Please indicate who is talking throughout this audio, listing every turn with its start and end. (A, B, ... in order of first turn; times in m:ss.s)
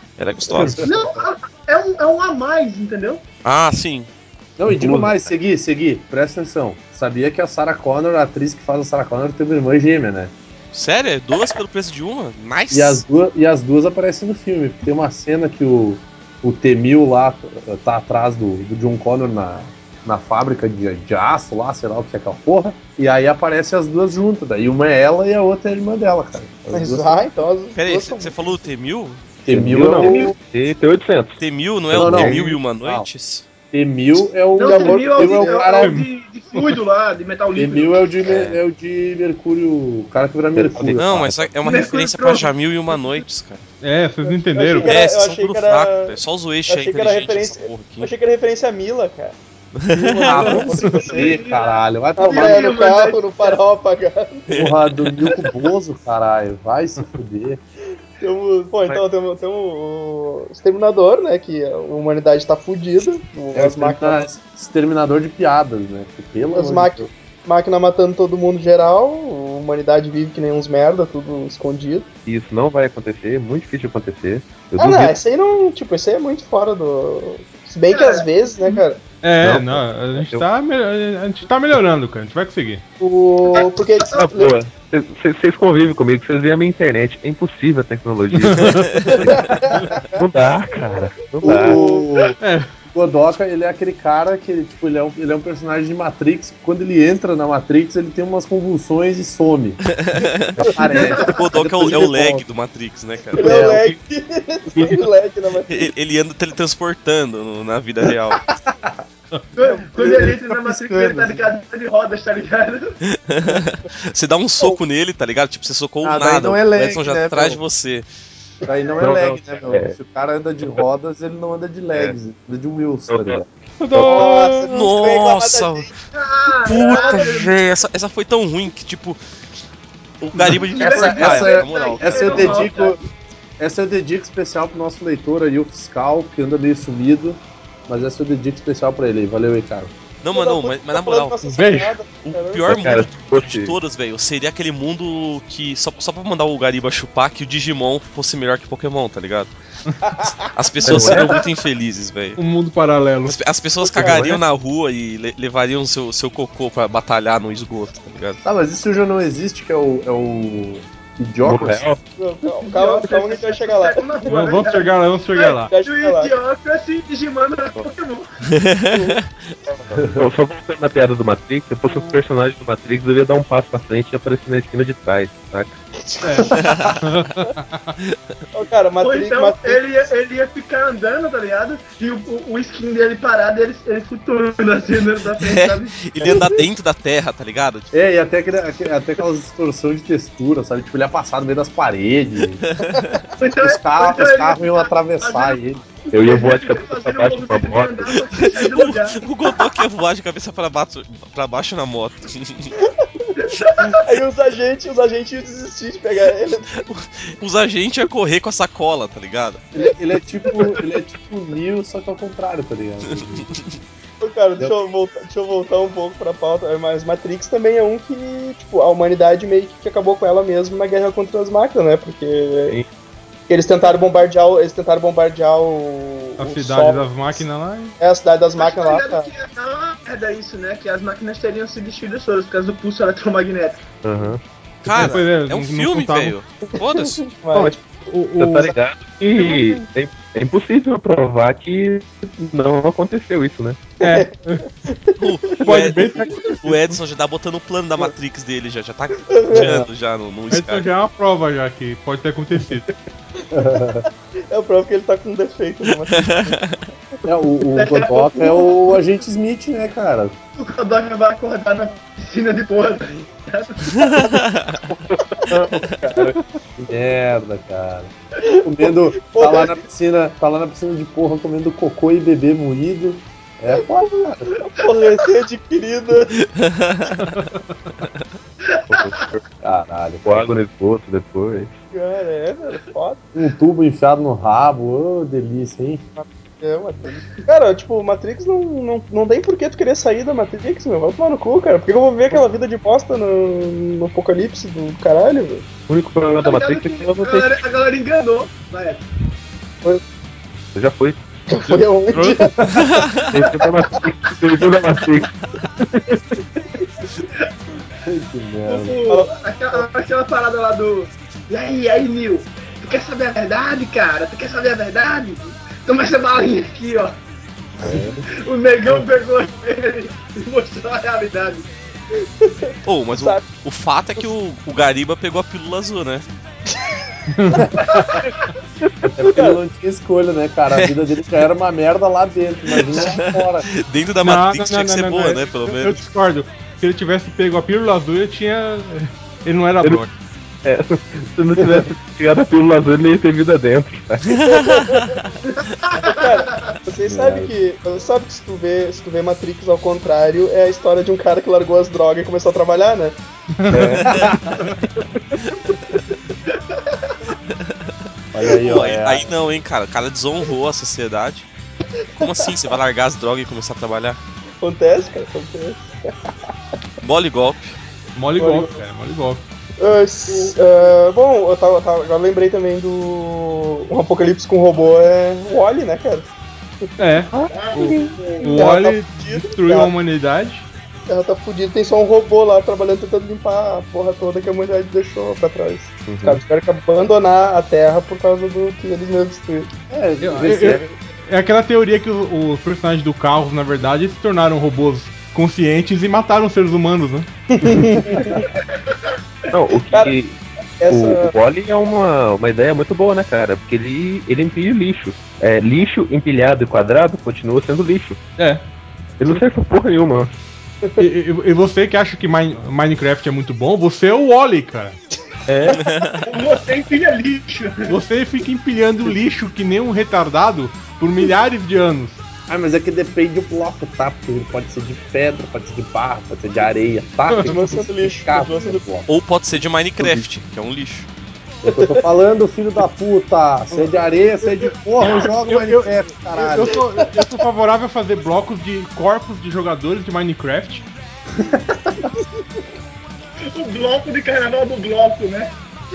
0:00.2-0:00.8 A
0:00.6-0:01.2 B
0:00.8-0:03.2 C
0:03.4-0:04.1 A
0:04.6-0:10.3 B
0:04.6-0:05.3 D
0:10.7-0:13.0 A
0:12.7-0:27.4 B
0:26.7-0:28.3 E
0:27.7-0:29.2 A
0:29.4-0:30.3 B
0:29.5-0:31.4 D
0:29.9-0:30.3 C
0:31.4-0:33.4 A
0:31.9-0:32.5 D
0:31.9-0:33.1 B
0:33.7-0:36.0 B
0:34.6-0:38.1 C
0:34.6-0:35.4 E
0:35.7-0:36.8 F
0:37.6-0:41.1 B
0:38.2-0:38.6 D
0:40.5-0:41.5 D
0:41.0-0:43.6 A
0:41.6-0:42.5 C
0:43.8-0:45.0 F
0:44.2-0:49.4 E
0:44.8-0:48.1 A
0:49.7-0:50.6 A
0:49.9-0:51.4 E
0:50.2-0:52.9 B
0:50.3-0:53.6 C
0:52.2-0:54.6 E
0:54.5-0:55.4 A
0:54.5-0:57.6 B
0:58.2-1:04.3 E
1:03.5-1:07.1 B
1:06.5-1:12.1 E
1:12.2-1:15.2 D
1:14.8-1:19.0 E
1:17.9-1:18.3 C
1:19.2-1:22.8 F
1:19.4-1:20.5 D
1:23.0-1:24.5 E
1:24.1-1:31.8 D
1:28.3-1:29.2 F
1:28.9-1:29.2 A
1:29.1-1:30.2 E
1:31.4-1:32.3 E
1:31.4-1:39.8 B
1:32.4-1:32.7 F
1:39.9-1:43.7 A
1:40.6-1:41.1 E
1:40.7-1:42.4 B
1:40.9-1:41.4 C
1:43.3-1:45.9 E
1:43.4-1:43.9 B
1:43.5-1:44.0 D
1:45.7-1:48.4 A
1:48.3-1:49.0 B
1:49.5-1:52.9 C
1:49.7-1:50.2 E
1:50.0-1:51.5 B
1:53.0-1:58.0 A
1:56.0-1:57.6 B
1:58.6-2:03.3 B
1:59.0-2:00.0 D
2:03.1-2:04.4 D
2:03.8-2:04.7 F
2:04.0-2:05.9 E
2:04.7-2:05.9 A
2:06.1-2:07.8 C
2:06.6-2:09.2 A
2:06.8-2:07.2 E
2:10.2-2:12.8 A
2:10.4-2:13.0 B
2:10.7-2:13.0 C
2:10.8-2:11.5 D
2:13.6-2:19.9 B
2:20.2-2:29.5 A
2:20.3-2:23.1 E
2:21.6-2:22.0 F
2:22.6-2:23.8 D
2:30.0-2:30.5 E
2:30.5-2:32.4 A
2:30.8-2:31.4 D
2:32.4-2:34.4 F
2:33.2-2:38.4 A
2:38.4-2:41.9 B
2:41.4-2:42.0 D
2:42.2-2:44.1 E
2:42.6-2:48.3 C
2:44.2-2:45.7 F
2:45.7-2:46.3 E
2:48.5-2:49.3 A
2:48.9-2:49.9 E
2:49.9-2:55.8 D
2:50.0-2:50.2 B
2:51.9-2:52.1 E
2:56.0-2:56.7 E
2:56.2-2:58.0 F
2:56.5-2:57.0 A
2:58.5-2:59.9 E
2:59.0-3:06.4 C
3:05.4-3:07.9 A
3:06.2-3:06.7 E
3:07.9-3:12.6 B
3:12.6-3:13.1 A
3:13.0-3:13.2 E
3:13.4-3:19.2 C
3:13.6-3:15.8 B
3:16.1-3:18.2 D
3:18.4-3:22.7 A
3:22.8-3:23.3 E
3:23.4-3:24.0 C
3:24.0-3:26.8 E
3:26.8-3:29.6 A
3:29.7-3:33.5 B
3:30.5-3:30.8 E
3:33.0-3:33.8 A
3:34.2-3:42.8 E
3:43.5-3:47.4 E
3:46.4-3:48.0 F
3:48.0-3:49.3 E
3:48.6-3:53.8 C
3:54.0-3:54.4 D
3:54.8-3:57.2 A
3:54.9-3:56.4 F
3:56.8-3:57.8 E
3:57.5-3:58.8 F
3:58.4-4:03.8 D
3:59.3-3:59.7 E
4:04.0-4:04.3 E
4:04.0-4:04.6 F
4:04.9-4:05.2 E
4:05.2-4:10.9 A
4:05.6-4:07.0 F
4:09.3-4:09.8 E
4:09.5-4:09.9 B
4:10.5-4:12.9 F
4:13.4-4:13.9 E
4:13.5-4:14.0 B
4:14.5-4:16.8 E
4:16.1-4:16.7 A
4:17.2-4:20.4 B
4:17.8-4:18.5 C
4:20.6-4:24.4 C
4:24.0-4:24.8 A
4:24.9-4:26.3 E
4:25.1-4:26.4 D
4:26.8-4:28.1 B
4:28.4-4:29.8 E
4:28.6-4:34.6 B
4:33.7-4:36.4 E
4:36.4-4:37.4 A
4:37.2-4:37.6 F
4:38.6-4:39.2 C
4:38.9-4:39.4 D
4:39.6-4:40.5 B
4:40.2-4:41.8 D
4:41.9-4:43.2 E
4:43.3-4:46.0 B
4:46.2-4:55.7 E
4:55.9-4:57.6 D
4:56.4-4:59.0 C
5:00.7-5:01.2 D
5:01.5-5:02.9 E
5:02.2-5:02.4 F
5:02.2-5:02.9 B
5:02.8-5:03.2 A
5:03.3-5:06.2 D
5:03.3-5:03.6 C
5:08.0-5:09.0 B
5:08.7-5:17.1 C
5:09.0-5:09.9 E
5:17.8-5:18.2 B
5:17.8-5:18.1 D
5:18.3-5:21.7 C
5:22.2-5:23.4 E
5:22.8-5:26.2 A
5:27.3-5:27.8 F
5:27.8-5:28.4 C
5:28.8-5:29.2 D
5:29.2-5:33.7 B
5:29.2-5:29.6 E
5:32.9-5:36.0 A
5:34.2-5:40.1 F
5:40.6-5:44.6 D
5:44.4-5:45.2 A
5:44.6-5:45.2 E
5:45.7-5:46.8 C
5:46.0-5:53.1 E
5:47.1-5:47.5 B
5:53.6-5:54.7 F
5:53.7-5:54.4 D
5:54.1-5:54.4 B
5:56.7-5:57.1 C
5:57.5-5:57.7 A
5:58.3-5:59.3 B
5:58.4-6:01.5 A
6:02.2-6:04.2 A
6:02.2-6:02.5 E
6:04.6-6:05.9 E
6:07.0-6:07.7 A
6:08.2-6:09.4 F
6:08.4-6:08.8 E
6:09.8-6:16.3 E
6:17.0-6:20.7 F
6:17.3-6:19.9 E
6:17.5-6:18.7 C
6:21.1-6:29.7 E
6:26.0-6:26.4 D
6:29.9-6:30.9 B
6:30.2-6:37.3 F
6:37.5-6:38.5 E
6:38.8-6:39.1 C
6:39.5-6:48.2 D
6:40.8-6:41.3 E
6:48.4-6:48.6 F
6:49.2-6:50.4 D
6:51.0-6:55.0 F
6:55.8-6:56.2 A
6:56.2-6:58.0 C
6:57.9-7:02.2 F
7:02.5-7:09.1 B
7:07.3-7:07.6 F
7:07.4-7:08.8 E
7:09.1-7:11.1 A
7:11.6-7:16.8 B
7:11.6-7:12.0 E
7:15.4-7:20.8 F
7:17.0-7:17.3 E
7:21.4-7:22.1 B
7:23.5-7:25.5 C